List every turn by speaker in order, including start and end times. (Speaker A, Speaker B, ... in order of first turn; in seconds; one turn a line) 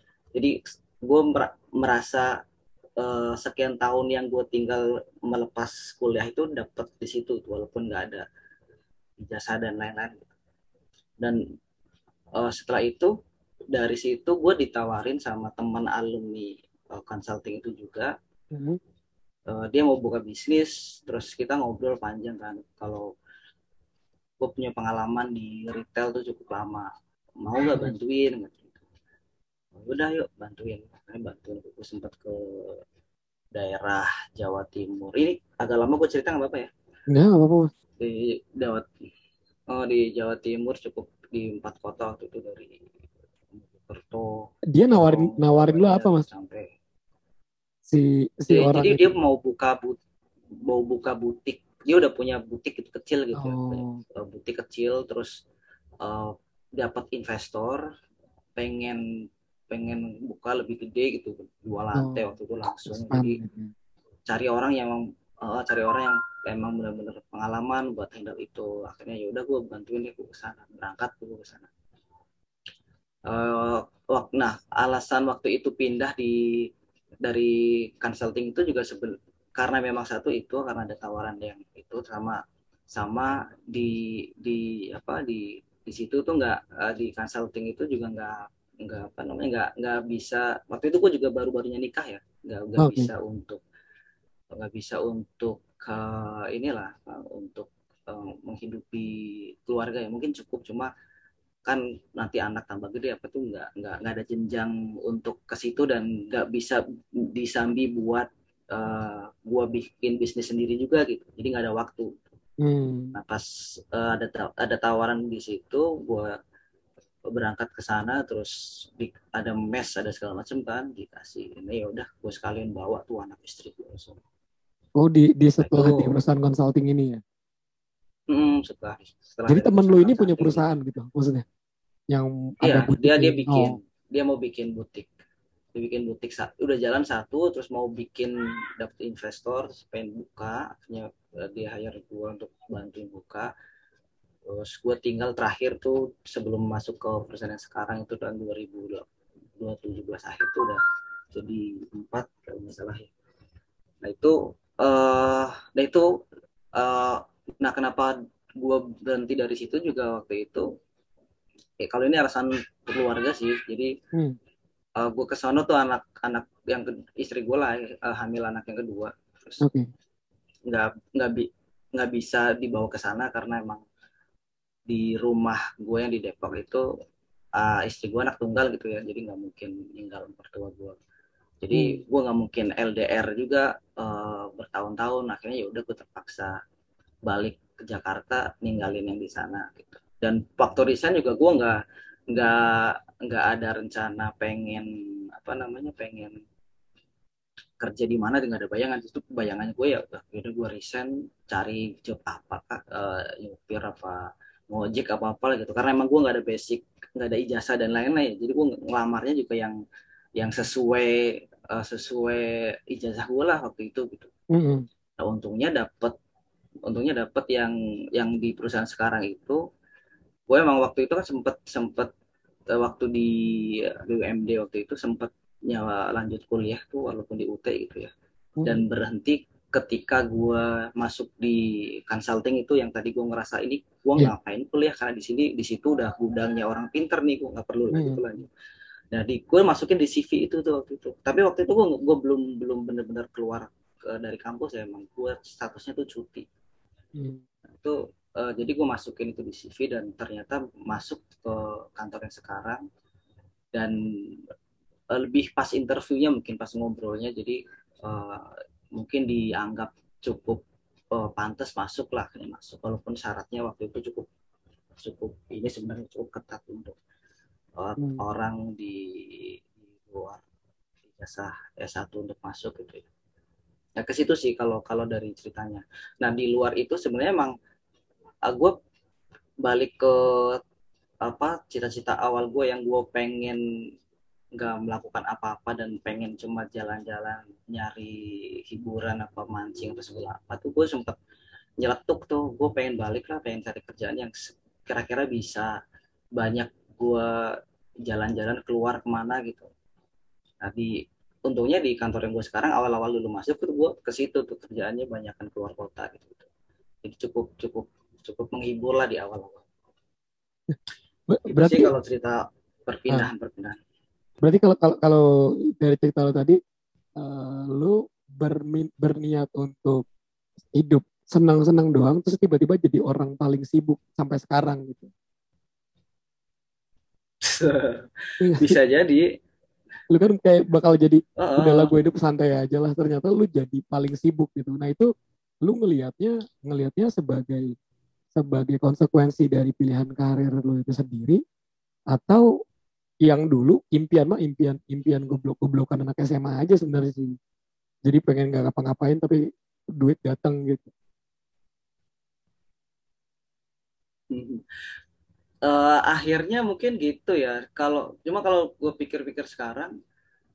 Speaker A: 0.3-2.3
Speaker A: 3.0-8.2
Speaker A: 9.2-10.3
Speaker A: 12.3-13.1
Speaker A: 13.7-18.1
Speaker B: 18.5-18.8
Speaker A: 19.5-23.1
Speaker A: 24.4-26.9
Speaker A: 27.4-28.8
Speaker A: 29.8-32.8
Speaker A: 33.5-36.7
Speaker B: 37.1-37.7
Speaker A: 38.0-38.9
Speaker A: 39.7-42.8
Speaker A: 43.6-46.7
Speaker B: 44.7-46.2
Speaker B: 47.9-49.1
Speaker A: 48.5-50.0
Speaker A: 50.6-55.3
Speaker B: 53.3-54.0
Speaker A: 56.0-57.8
Speaker A: 58.6-59.0
Speaker A: 59.7-63.4
Speaker B: 61.9-62.2
Speaker B: 62.9-63.7
Speaker A: 64.3-71.7
Speaker A: 73.3-76.6
Speaker A: 77.2-82.4
Speaker A: 82.9-93.6
Speaker B: 92.8-93.1
Speaker A: 94.5-100.9
Speaker A: 101.7-112.2
Speaker B: 112.6-113.1
Speaker A: 113.1-116.3
Speaker A: 117.3-124.2
Speaker B: 125.0-127.2
Speaker A: 125.6-126.1
Speaker A: 128.3-130.6
Speaker B: 129.5-131.4
Speaker B: 132.1-133.8
Speaker A: 132.6-135.1
Speaker A: 135.7-143.5
Speaker A: 144.5-149.0
Speaker A: 149.6-150.8
Speaker A: 151.3-153.1
Speaker A: 154.0-156.1
Speaker A: 156.8-160.7
Speaker A: 161.8-163.9
Speaker A: 165.0-169.6
Speaker B: 169.6-169.9
Speaker A: 170.7-173.8
Speaker A: 174.9-176.9
Speaker A: 177.6-181.0
Speaker A: 181.6-186.6
Speaker B: 181.7-182.0
Speaker A: 187.3-191.8
Speaker A: 192.3-196.4
Speaker A: 197.8-209.8
Speaker A: 210.4-214.3
Speaker B: 214.5-214.8
Speaker A: 215.2-216.1
Speaker A: 216.9-219.6
Speaker A: 220.5-222.1
Speaker A: 222.7-228.1
Speaker B: 228.6-228.8
Speaker A: 228.6-238.5
Speaker B: 237.9-238.2
Speaker A: 239.1-246.4
Speaker B: 247.2-247.4
Speaker A: 247.8-252.8
Speaker A: 255.1-260.6
Speaker A: 261.1-264.3
Speaker A: 265.0-267.0
Speaker A: 267.8-270.4
Speaker A: 271.1-273.1
Speaker A: 274.0-277.5
Speaker A: 278.5-278.8
Speaker A: 279.6-280.6
Speaker A: 281.2-283.6
Speaker A: 284.6-291.2
Speaker A: 291.8-295.7
Speaker A: 296.4-299.7
Speaker A: 300.6-300.9
Speaker A: 301.5-306.4
Speaker A: 307.0-309.6
Speaker B: 311.3-311.9
Speaker A: 311.5-313.8
Speaker B: 314.4-316.6
Speaker B: 317.2-320.0
Speaker B: 320.7-325.1
Speaker A: 327.4-329.2
Speaker B: 328.4-328.8
Speaker B: 330.1-335.1
Speaker A: 331.4-331.9
Speaker B: 335.6-337.7
Speaker B: 338.3-341.4
Speaker B: 342.1-342.4
Speaker B: 343.2-347.4
Speaker B: 348.1-349.4
Speaker B: 349.9-350.9
Speaker A: 354.3-354.6
Speaker A: 355.6-359.9